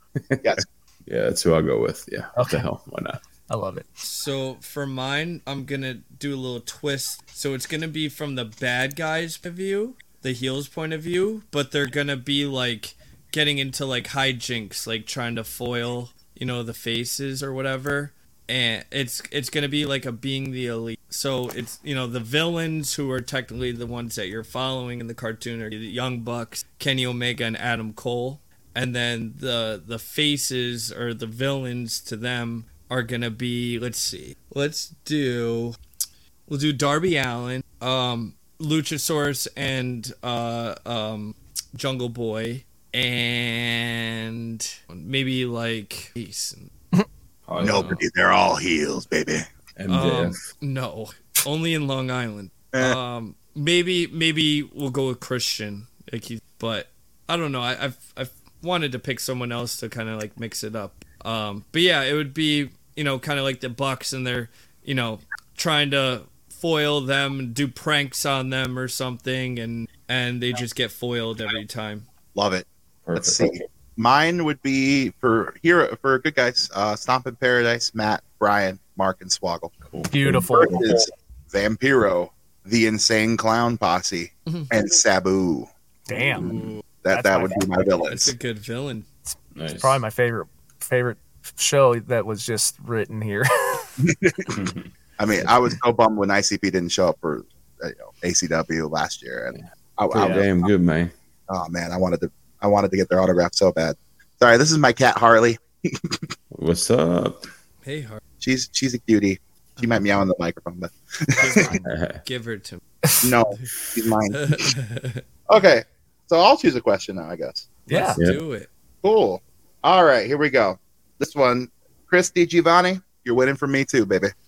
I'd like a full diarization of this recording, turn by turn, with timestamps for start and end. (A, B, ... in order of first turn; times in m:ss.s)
0:00.2-0:03.2 A
0:02.4-0:02.6 B
0:03.5-0:03.9 B
0:04.0-0:35.8 C
0:36.5-0:46.7 C
0:47.5-0:48.0 A
0:47.6-0:49.5 D
0:47.6-0:48.0 C
0:49.8-0:50.4 A
0:49.9-1:12.0 C
0:52.7-0:53.0 D
1:12.4-1:19.7 D
1:13.1-1:13.6 A
1:19.8-1:20.7 A
1:20.1-1:20.9 B
1:20.5-1:25.7 D
1:26.1-1:26.6 B
1:26.4-1:26.8 C
1:26.5-1:28.3 D
1:27.1-1:27.7 B
1:28.0-1:29.1 C
1:29.3-1:33.9 B
1:29.6-1:30.0 A
1:34.0-1:34.6 D
1:34.5-1:34.8 A
1:35.2-1:40.7 D
1:40.1-1:41.1 A
1:41.5-1:46.2 D
1:46.5-1:47.5 A
1:47.8-1:48.2 C
1:48.4-1:51.8 D
1:49.8-1:50.0 C
1:51.4-1:52.8 C
1:51.8-1:52.2 A
1:53.2-1:54.7 D
1:54.3-1:55.2 C
1:55.5-1:57.7 D
1:57.9-1:58.2 B
1:57.9-1:58.7 C
1:59.0-2:04.3 D